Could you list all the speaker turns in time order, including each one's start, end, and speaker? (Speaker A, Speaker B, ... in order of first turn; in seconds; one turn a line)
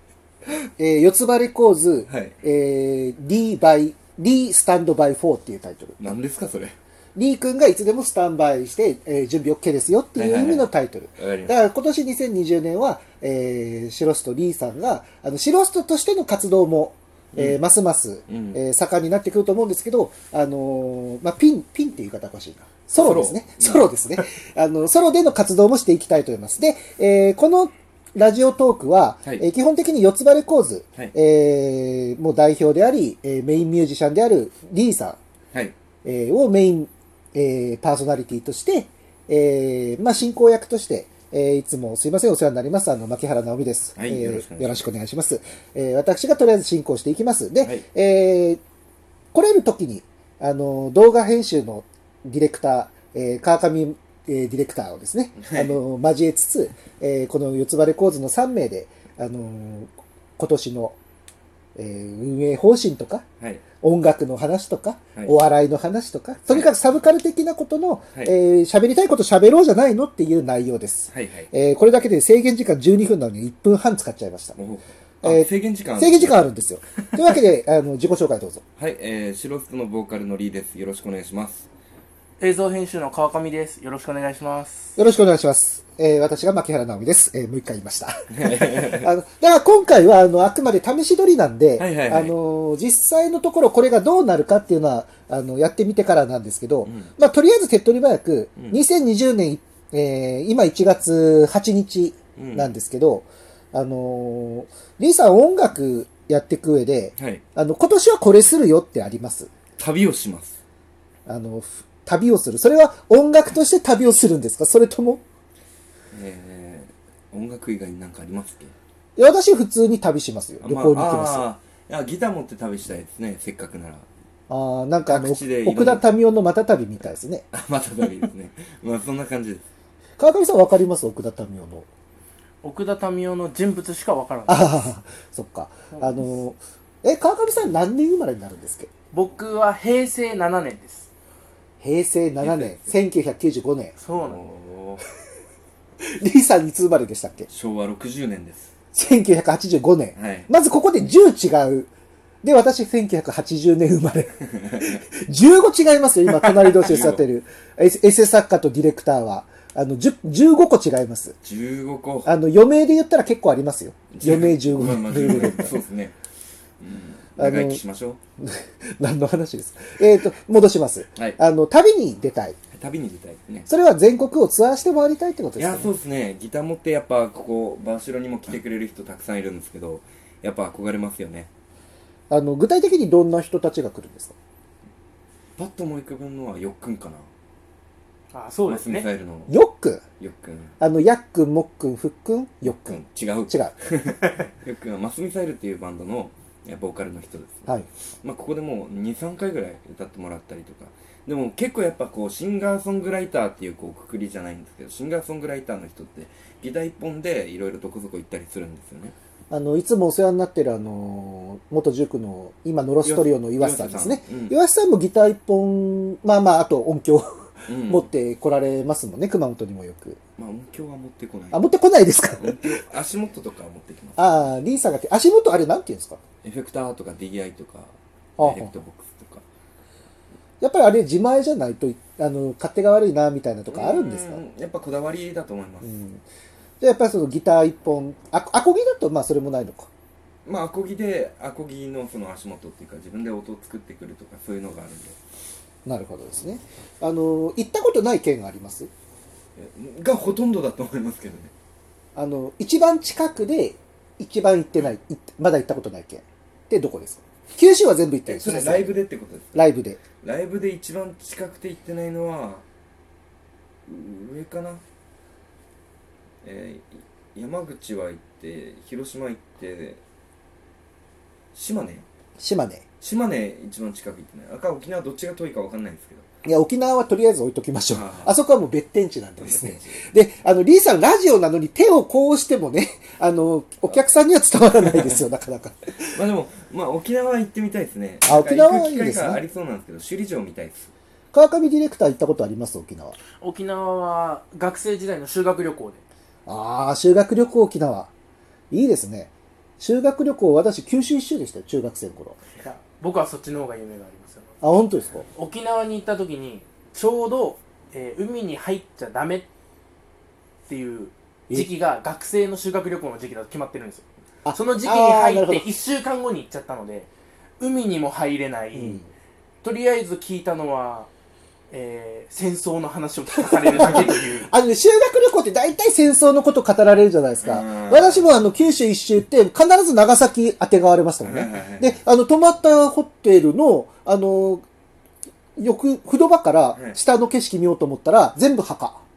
Speaker A: 0.8-6.0
Speaker B: 2.1-2.4
Speaker B: 6.0-6.7
Speaker A: 7.2-35.2
Speaker B: 10.2-11.6
Speaker B: 17.3-17.6
Speaker B: 18.3-18.6
Speaker B: 22.9-23.9
Speaker A: 36.0-48.6
Speaker B: 44.0-44.9
Speaker A: 49.3-61.0
Speaker B: 55.4-55.8
Speaker A: 61.8-63.2
Speaker A: 63.8-74.6
Speaker B: 71.1-71.5
Speaker B: 74.6-76.5
Speaker A: 75.2-78.6
Speaker B: 78.8-81.7
Speaker C: 82.4-84.9
Speaker A: 85.0-109.5
Speaker B: 88.3-89.1
Speaker B: 91.8-92.3
Speaker B: 96.8-97.1
Speaker B: 102.4-102.7
Speaker B: 107.2-107.4
Speaker B: 109.8-110.6
Speaker A: 111.2-115.2
Speaker B: 116.1-118.7
Speaker A: 119.2-121.5
Speaker B: 120.6-124.1
Speaker A: 124.5-127.5
Speaker B: 125.1-126.0
Speaker B: 127.5-129.6
Speaker A: 130.2-131.9
Speaker C: 132.6-134.9
Speaker A: 134.5-138.9
Speaker C: 135.9-136.2
Speaker C: 139.1-141.1
Speaker A: 141.8-143.9
Speaker B: 142.4-142.9
Speaker C: 144.0-144.4
Speaker B: 144.1-145.0
Speaker A: 146.2-147.5
Speaker B: 147.5-148.7
Speaker A: 148.9-151.9
Speaker B: 150.2-150.5
Speaker A: 152.4-161.4
Speaker B: 156.6-157.2
Speaker B: 161.4-162.3
Speaker A: 162.2-165.8
Speaker B: 164.1-166.2
Speaker B: 166.8-168.2
Speaker A: 167.4-167.8
Speaker A: 168.4-172.6
Speaker B: 172.7-173.7
Speaker A: 173.7-175.9
Speaker B: 175.6-181.5
Speaker A: 182.3-184.3
Speaker B: 185.6-187.2
Speaker C: 188.3-189.1
Speaker B: 188.7-189.6
Speaker A: 189.5-190.0
Speaker B: 190.2-190.8
Speaker A: 190.8-193.7
Speaker B: 192.6-197.7
Speaker B: 198.2-209.1
Speaker A: 209.5-220.2
Speaker B: 213.0-214.6
Speaker B: 217.7-218.1
Speaker B: 220.4-221.6
Speaker A: 221.5-222.8
Speaker B: 222.2-224.5
Speaker A: 224.2-226.2
Speaker B: 226.4-229.4
Speaker A: 228.4-228.7
Speaker A: 230.6-234.4
Speaker B: 233.7-235.9
Speaker A: 235.8-236.2
Speaker A: 236.8-239.9
Speaker B: 240.4-245.2
Speaker A: 245.8-248.9
Speaker B: 249.6-251.5
Speaker A: 252.1-259.0
Speaker B: 258.3-259.7
Speaker A: 259.5-260.0
Speaker B: 260.2-262.6
Speaker B: 263.9-264.8
Speaker B: 266.4-270.0
Speaker B: 271.5-272.0
Speaker A: 272.4-272.8
Speaker B: 273.0-276.2
Speaker A: 276.4-286.1
Speaker B: 277.9-278.3
Speaker B: 279.4-280.0
Speaker B: 286.1-290.9
Speaker A: 288.2-289.4
Speaker A: 291.3-293.2
Speaker C: 293.4-296.0
Speaker A: 296.4-298.1
Speaker A: 298.7-302.4
Speaker C: 302.6-304.5
Speaker A: 304.6-305.3
Speaker C: 305.3-309.5
Speaker C: 310.7-319.0
Speaker A: 314.4-315.8
Speaker A: 318.7-319.1
Speaker C: 319.6-321.1
Speaker C: 321.7-324.5
Speaker A: 323.6-334.6
Speaker B: 327.4-328.3
Speaker B: 331.2-332.0
Speaker A: 335.6-339.0